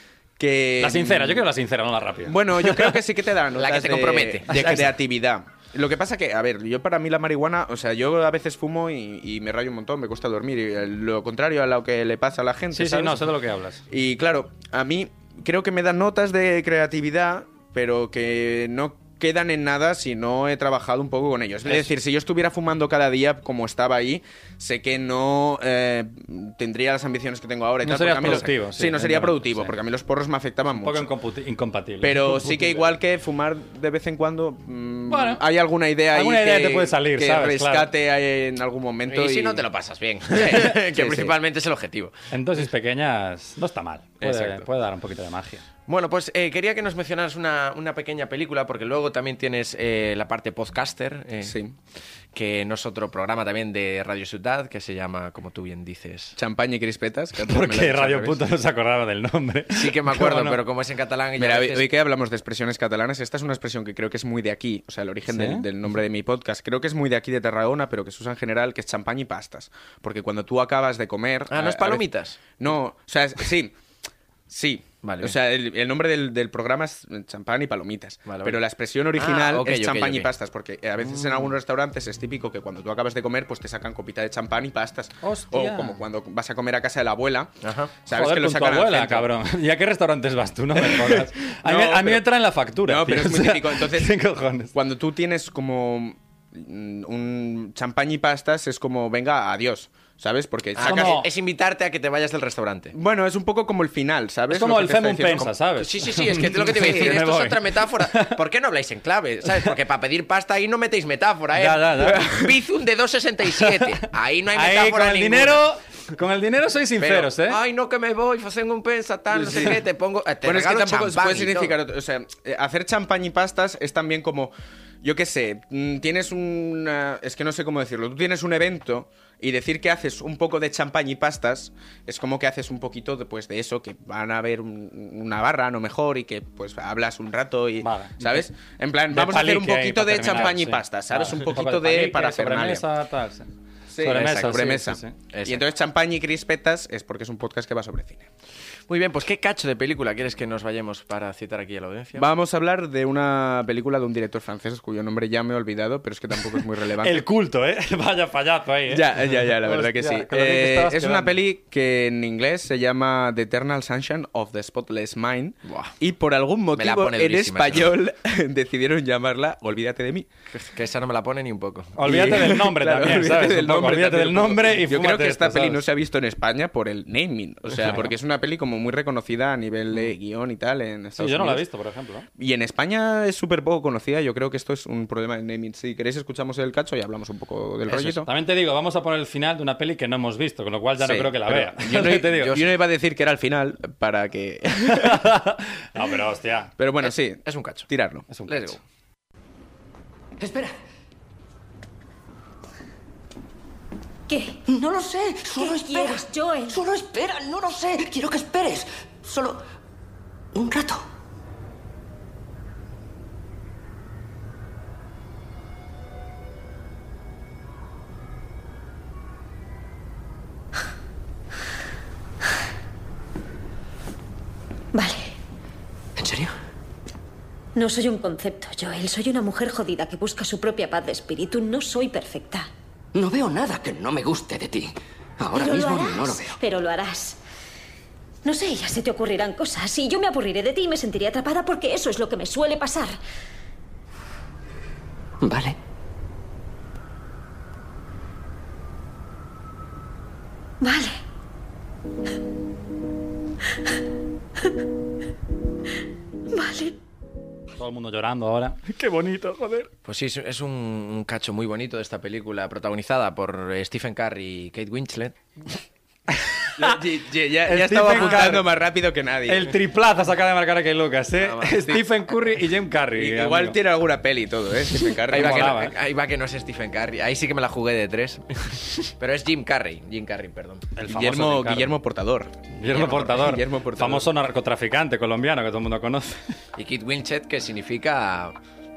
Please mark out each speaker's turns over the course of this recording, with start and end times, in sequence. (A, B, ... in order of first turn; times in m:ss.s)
0:00.4-0:01.5 A
0:00.8-0:02.9 B
0:02.3-0:13.2 A
0:03.6-0:04.5 C
0:04.5-0:04.9 B
0:12.7-0:13.8 B
0:13.9-0:31.1 A
0:27.8-0:29.8 B
0:30.8-0:32.9 B
0:32.0-0:39.6 A
0:35.1-0:35.4 B
0:36.1-0:37.9 B
0:39.1-0:42.1 C
0:40.4-0:41.4 A
0:42.3-0:45.6 B
0:44.2-0:44.7 C
0:45.9-0:51.6 C
0:51.4-0:51.8 A
0:52.4-0:56.4 C
0:56.4-0:58.4 A
0:57.5-1:00.6 B
0:59.7-1:01.9 C
1:01.4-1:12.0 A
1:05.3-1:05.7 B
1:11.5-1:12.4 C
1:12.6-1:13.7 A
1:14.5-1:27.5 A
1:15.0-1:15.3 C
1:18.3-1:18.6 C
1:19.2-1:20.3 C
1:25.2-1:26.0 B
1:27.6-1:27.9 C
1:28.0-1:29.3 A
1:28.1-1:34.7 B
1:30.8-1:32.3 A
1:32.8-1:34.2 A
1:34.7-1:41.2 A
1:40.8-1:43.0 C
1:40.8-1:41.3 B
1:42.9-1:45.5 A
1:44.5-1:48.4 B
1:45.8-1:55.6 C
1:46.7-1:47.2 A
1:51.6-1:52.2 B
1:52.1-1:52.5 A
1:54.5-1:57.6 B
1:57.0-2:01.8 C
2:00.4-2:22.9 A
2:17.8-2:18.5 B
2:19.1-2:23.5 B
2:23.9-2:28.3 A
2:24.0-2:25.2 B
2:24.1-2:24.7 C
2:25.3-2:25.6 C
2:28.9-2:32.3 C
2:32.2-2:37.3 A
2:37.0-2:41.4 B
2:38.9-2:50.3 A
2:45.7-2:45.9 C
2:46.8-2:48.0 C
2:50.5-2:52.0 C
2:52.0-2:55.8 B
2:52.0-3:01.7 A
2:57.8-2:58.1 B
3:01.2-3:02.3 B
3:02.4-3:08.3 A
3:07.9-3:12.6 B
3:11.0-3:15.3 A
3:14.9-3:16.7 B
3:16.8-3:18.3 A
3:17.0-3:17.9 C
3:18.3-3:18.8 B
3:18.5-3:18.8 C
3:20.4-3:20.8 D
3:24.3-3:24.6 E
3:24.7-3:29.6 D
3:25.6-3:26.8 E
3:30.5-3:31.0 D
3:44.9-3:45.4 E
3:46.2-3:46.5 D
3:47.8-3:52.7 E
3:53.2-3:56.6 D
3:55.5-3:57.4 E
3:58.4-4:03.2 E
4:05.4-4:05.8 D
4:10.8-4:11.2 E
4:16.5-4:17.0 E
4:17.8-4:19.9 B
4:20.0-4:25.8 C
4:26.4-4:27.0 B
4:26.8-4:29.7 A
4:27.6-4:28.6 B
4:28.1-4:28.4 C
4:29.5-4:33.8 B
4:31.4-4:32.0 C
4:33.2-4:35.8 A
4:34.9-4:35.9 B
4:35.3-4:40.9 C
4:41.0-4:41.9 B
4:41.1-4:44.3 A
4:42.8-4:46.4 B
4:46.8-4:48.6 C